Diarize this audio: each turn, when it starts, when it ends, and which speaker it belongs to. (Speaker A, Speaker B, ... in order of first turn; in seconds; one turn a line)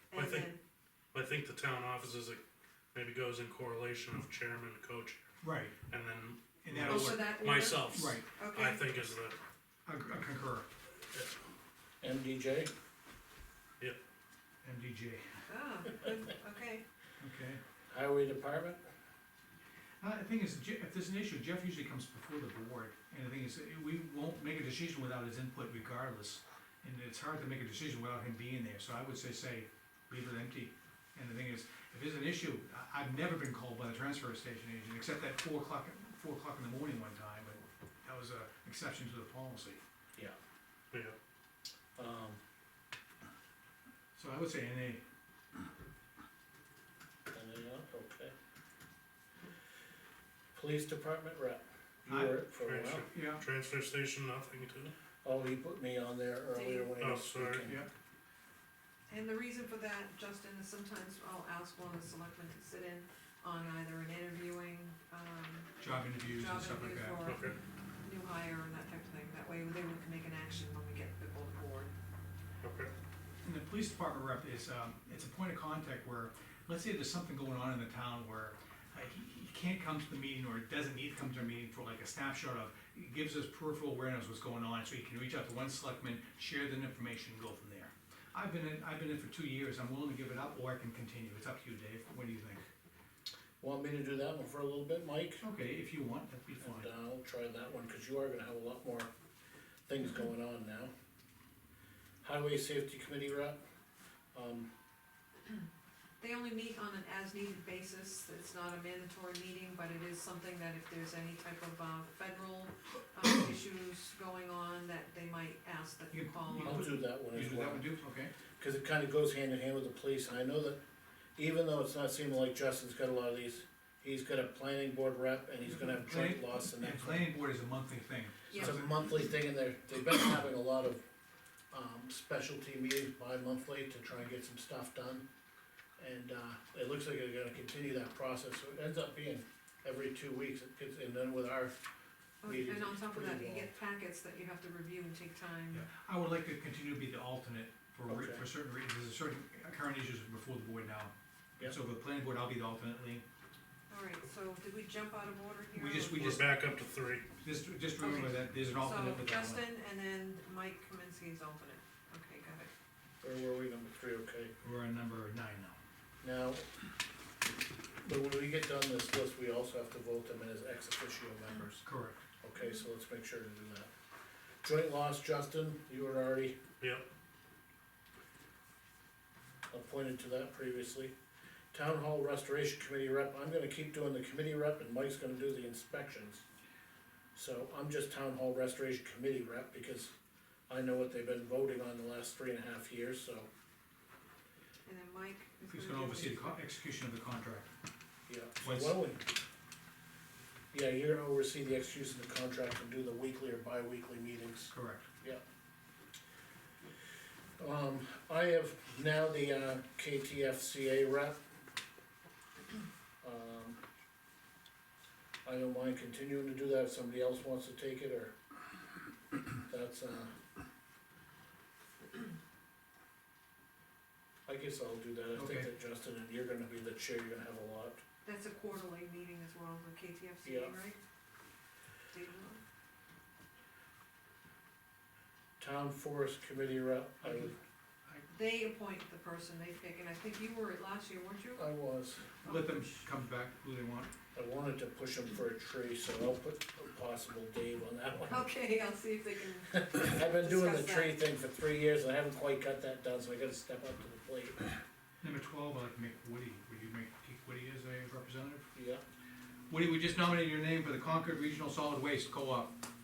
Speaker A: 0.1-0.6
Speaker B: 0.1-0.5
Speaker B: 1.1-2.4
Speaker B: 2.9-5.2
Speaker C: 5.4-5.8
Speaker B: 5.8-9.4
Speaker C: 6.6-8.2
Speaker A: 6.9-8.8
Speaker C: 9.8-10.7
Speaker D: 12.0-12.7
Speaker C: 14.6-15.4
Speaker A: 15.5-16.8
Speaker C: 17.2-17.6
Speaker D: 17.9-18.8
Speaker C: 20.0-39.8
Speaker D: 42.0-42.4
Speaker C: 44.2-45.0
Speaker D: 47.3-48.3
Speaker D: 50.5-53.1
Speaker C: 52.1-52.4
Speaker B: 52.6-54.9
Speaker C: 53.1-53.4
Speaker D: 55.2-57.8
Speaker A: 56.5-56.9
Speaker B: 57.0-57.6
Speaker A: 59.1-71.9
Speaker C: 65.8-67.2
Speaker B: 67.2-67.6
Speaker B: 72.6-72.9
Speaker C: 73.4-92.7
Speaker D: 93.6-95.4
Speaker C: 95.4-96.9
Speaker D: 96.6-99.1
Speaker D: 99.9-100.9
Speaker D: 102.2-103.6
Speaker D: 104.3-104.7
Speaker A: 106.2-116.9
Speaker C: 116.1-118.3
Speaker D: 116.6-117.9
Speaker D: 118.6-120.8
Speaker D: 121.4-127.3
Speaker C: 125.8-128.8
Speaker A: 128.5-128.8
Speaker D: 128.5-131.0
Speaker D: 131.7-135.2
Speaker D: 136.0-141.8
Speaker A: 142.4-145.8
Speaker D: 142.4-143.7
Speaker C: 145.7-153.2
Speaker D: 148.1-148.4
Speaker A: 153.9-156.3
Speaker C: 155.8-156.5
Speaker B: 156.2-157.3
Speaker C: 157.4-159.7
Speaker A: 158.0-162.7
Speaker D: 163.2-164.5
Speaker C: 164.6-165.8
Speaker D: 166.2-166.7
Speaker D: 168.0-171.8
Speaker C: 171.8-172.2
Speaker D: 172.4-173.9
Speaker D: 174.6-176.6
Speaker B: 176.8-177.1
Speaker D: 179.7-181.1
Speaker D: 181.7-186.4
Speaker D: 187.3-190.1
Speaker D: 190.7-193.5
Speaker A: 194.9-196.6
Speaker C: 195.7-197.7
Speaker D: 198.3-199.3
Speaker C: 198.6-199.0
Speaker D: 200.7-205.4
Speaker C: 204.7-205.1
Speaker D: 207.6-211.4
Speaker D: 213.2-213.8
Speaker D: 215.4-218.3
Speaker D: 219.7-220.3
Speaker D: 224.5-228.0
Speaker C: 225.3-225.7
Speaker A: 228.2-231.0
Speaker D: 230.4-230.7
Speaker A: 232.1-232.6
Speaker D: 235.6-237.6
Speaker C: 237.2-237.5
Speaker A: 238.3-241.6
Speaker D: 241.6-242.3
Speaker C: 242.4-244.1
Speaker D: 244.3-248.4
Speaker A: 248.3-251.2
Speaker D: 249.8-254.8
Speaker C: 255.2-258.7
Speaker D: 258.7-259.0
Speaker C: 259.7-262.7